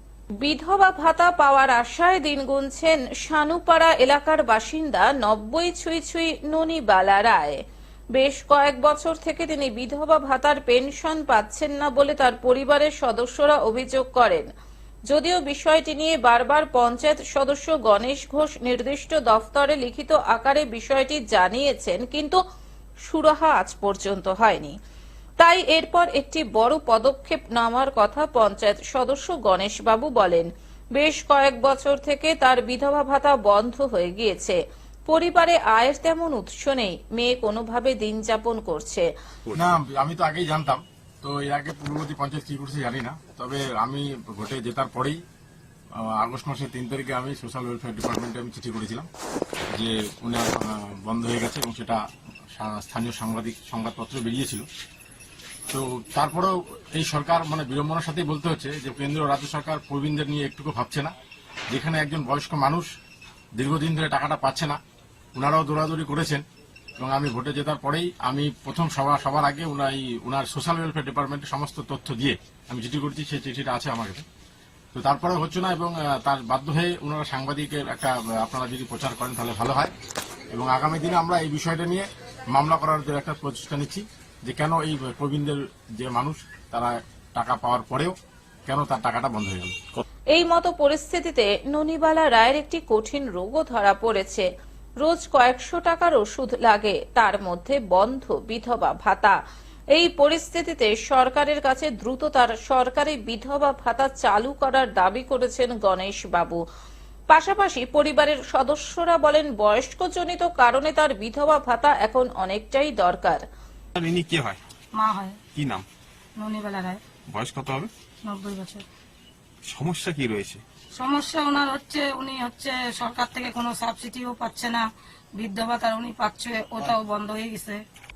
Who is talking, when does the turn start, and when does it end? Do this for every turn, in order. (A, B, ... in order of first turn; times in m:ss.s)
0:00.4-0:07.6 A
0:08.1-0:14.5 A
0:15.1-0:22.4 A
0:23.0-0:24.7 A
0:25.4-0:39.0 A
0:39.5-0:39.7 B
0:39.5-0:45.2 C
0:46.0-0:49.1 C
0:49.7-0:52.0 C
0:52.5-0:54.7 C
0:55.7-1:01.1 C
1:01.7-1:02.9 C
1:03.6-1:04.8 C
1:05.4-1:06.4 C
1:07.0-1:14.2 C
1:14.9-1:19.9 C
1:20.5-1:28.2 C
1:28.7-1:29.8 C
1:30.3-1:34.5 A
1:35.0-1:39.4 A
1:39.9-1:46.6 A
1:47.3-1:53.4 A
1:54.0-1:54.6 B
1:55.0-1:55.4 D
1:55.5-1:55.9 B
1:56.4-1:57.0 D
1:57.3-1:57.9 B
1:58.2-1:58.8 D
1:59.7-2:00.6 B
2:01.0-2:04.8 D
2:05.4-2:07.8 D